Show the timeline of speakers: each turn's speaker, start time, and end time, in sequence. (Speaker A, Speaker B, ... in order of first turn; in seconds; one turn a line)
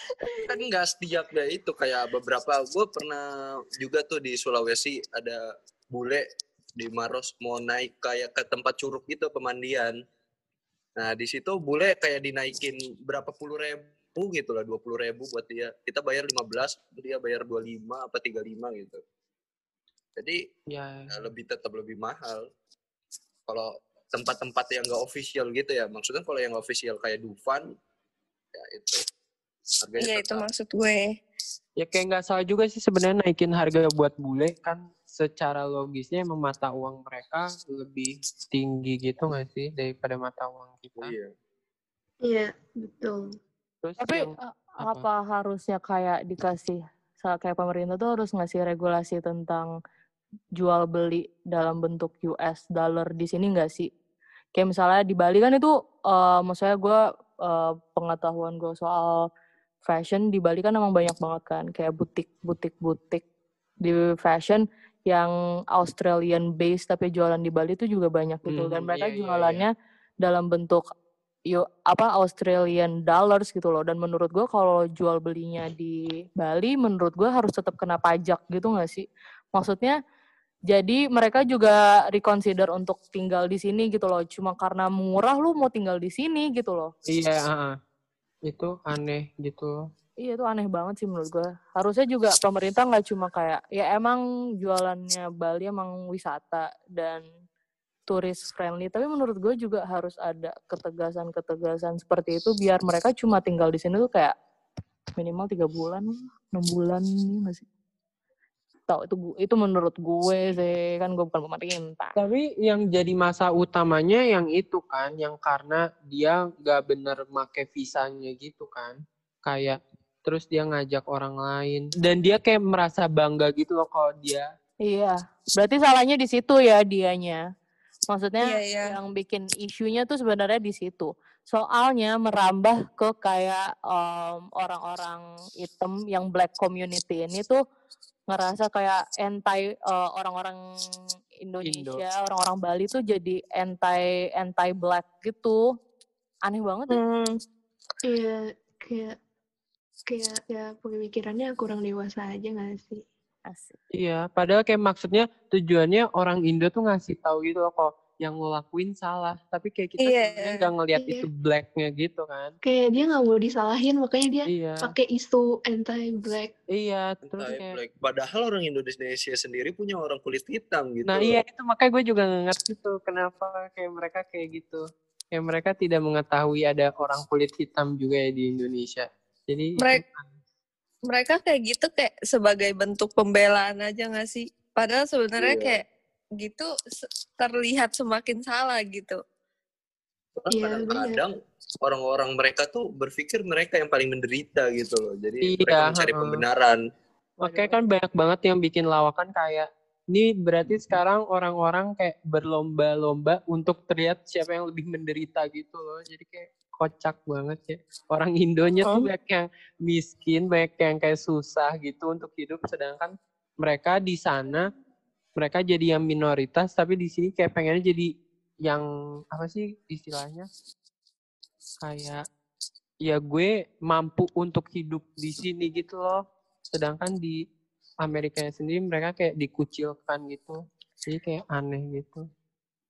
Speaker A: 0.5-6.2
Speaker A: 6.8-9.9
Speaker A: 11.0-19.0
Speaker B: 20.7-21.2
Speaker A: 21.1-22.4
Speaker A: 23.5-27.7
Speaker A: 28.5-29.0
Speaker A: 29.8-30.5
Speaker C: 30.0-31.0
Speaker B: 31.8-41.1
Speaker A: 41.0-41.3
Speaker D: 42.2-43.3
Speaker B: 43.8-45.0
Speaker E: 44.0-49.7
Speaker E: 50.6-53.9
Speaker E: 54.5-59.2
Speaker E: 59.9-63.2
Speaker E: 63.8-69.7
Speaker B: 68.5-69.7
Speaker E: 70.2-70.8
Speaker E: 71.5-79.9
Speaker E: 80.7-86.9
Speaker B: 87.1-87.7
Speaker B: 88.4-89.8
Speaker E: 90.2-97.2
Speaker E: 98.1-104.3
Speaker E: 105.2-107.6
Speaker E: 108.9-112.2
Speaker B: 112.2-124.5
Speaker E: 124.8-127.4
Speaker E: 128.1-137.6
Speaker C: 128.4-128.9
Speaker E: 138.3-140.6
Speaker E: 141.4-145.6
Speaker B: 141.6-142.0
Speaker E: 146.4-147.0
Speaker C: 146.9-147.3
Speaker D: 148.0-149.2
Speaker D: 150.1-153.0
Speaker E: 153.5-153.8
Speaker B: 153.9-162.5
Speaker C: 160.0-160.7
Speaker D: 160.9-161.3
Speaker D: 162.6-166.5
Speaker B: 164.4-164.9
Speaker B: 166.7-167.7
Speaker A: 167.2-171.4
Speaker B: 171.1-180.3
Speaker C: 181.1-185.8
Speaker A: 185.4-185.8
Speaker C: 186.4-186.7
Speaker C: 187.4-189.2
Speaker A: 190.4-196.8
Speaker D: 190.5-191.2
Speaker B: 195.4-196.4
Speaker B: 197.4-214.7
Speaker E: 197.4-197.8
Speaker C: 208.8-209.1
Speaker B: 215.4-218.1
Speaker B: 218.6-220.5
Speaker B: 221.8-222.2
Speaker B: 223.0-227.4
Speaker B: 228.0-232.2